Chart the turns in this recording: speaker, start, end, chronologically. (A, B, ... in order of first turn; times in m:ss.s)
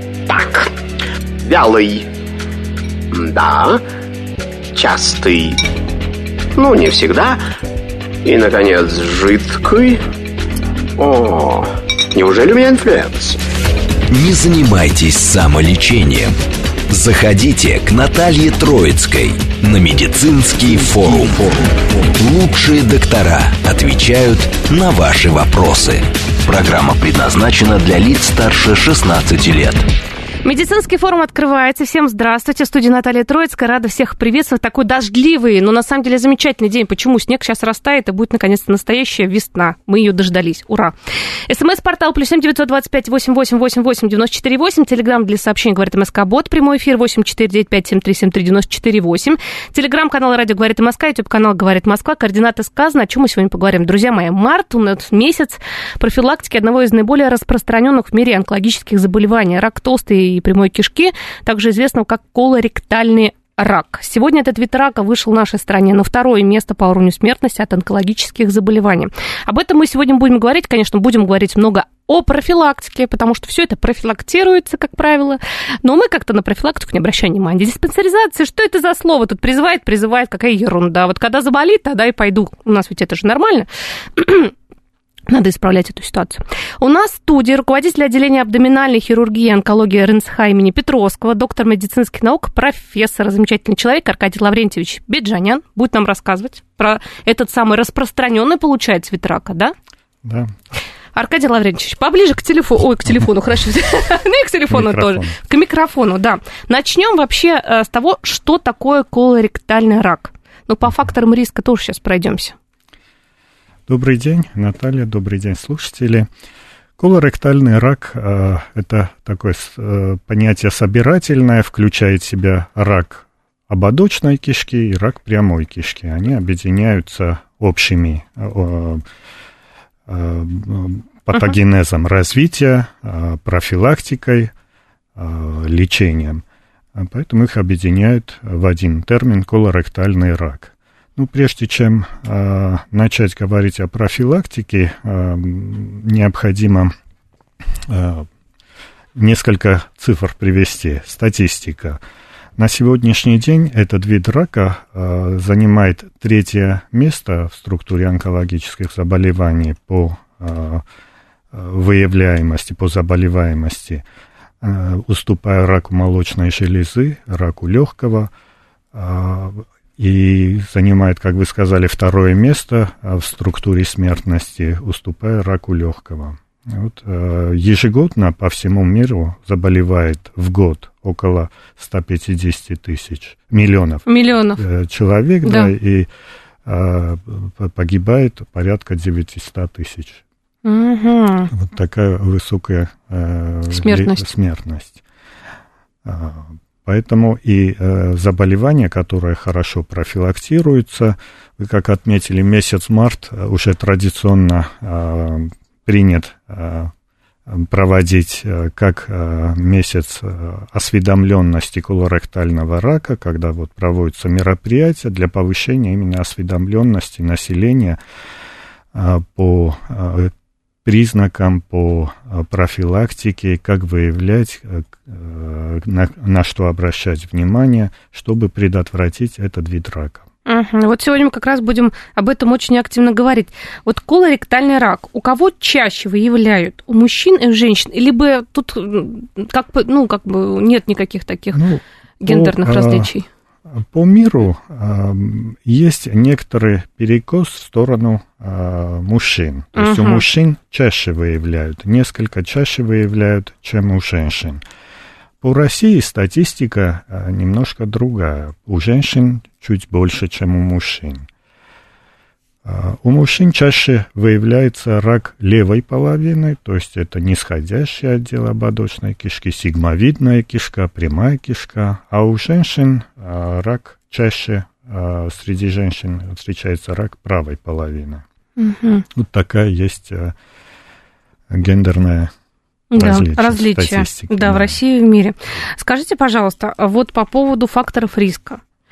0:00.3-0:00.7 A
0:01.4-0:02.1 A
0:03.1-0:03.8 A
0:04.8-0:05.6 A
0:06.6-0:07.4 A
0:08.2-0:10.0 A
0:11.0-0:13.4 A
0:14.1-0:16.4 B
0:16.9-0:29.9 B
0:30.4-0:40.9 C
0:41.5-1:24.5 C
1:25.3-1:39.7 C
1:40.2-1:40.5 D
1:41.1-1:52.5 C
1:44.7-1:45.4 D
1:53.9-1:56.3 D
1:57.0-2:09.0 D
2:10.1-2:14.5 D
2:15.2-2:16.4 D
2:17.0-2:26.9 D
2:27.8-2:28.3 D
2:29.2-2:32.0 D
2:32.6-2:40.8 D
2:41.5-2:44.0 D
2:44.6-2:48.3 D
2:48.9-3:06.1 D
3:04.1-3:04.6 C
3:05.4-3:05.7 C
3:06.6-3:10.2 D
3:10.6-3:11.5 C
3:11.5-3:15.0 D
3:13.7-3:14.3 C
3:16.0-3:26.9 D
3:27.5-3:38.0 D
3:38.9-3:40.3 D
3:40.8-3:50.2 D
3:50.5-4:01.6 C
4:01.5-4:03.1 D
4:02.2-4:03.2 C
4:03.8-4:14.6 D
4:09.8-4:10.2 C
4:15.4-4:21.2 D
4:22.6-4:38.2 D
4:38.6-4:39.0 C
4:39.1-4:40.3 D
4:41.5-4:42.3 D
4:42.9-4:48.6 C
4:42.9-4:44.8 D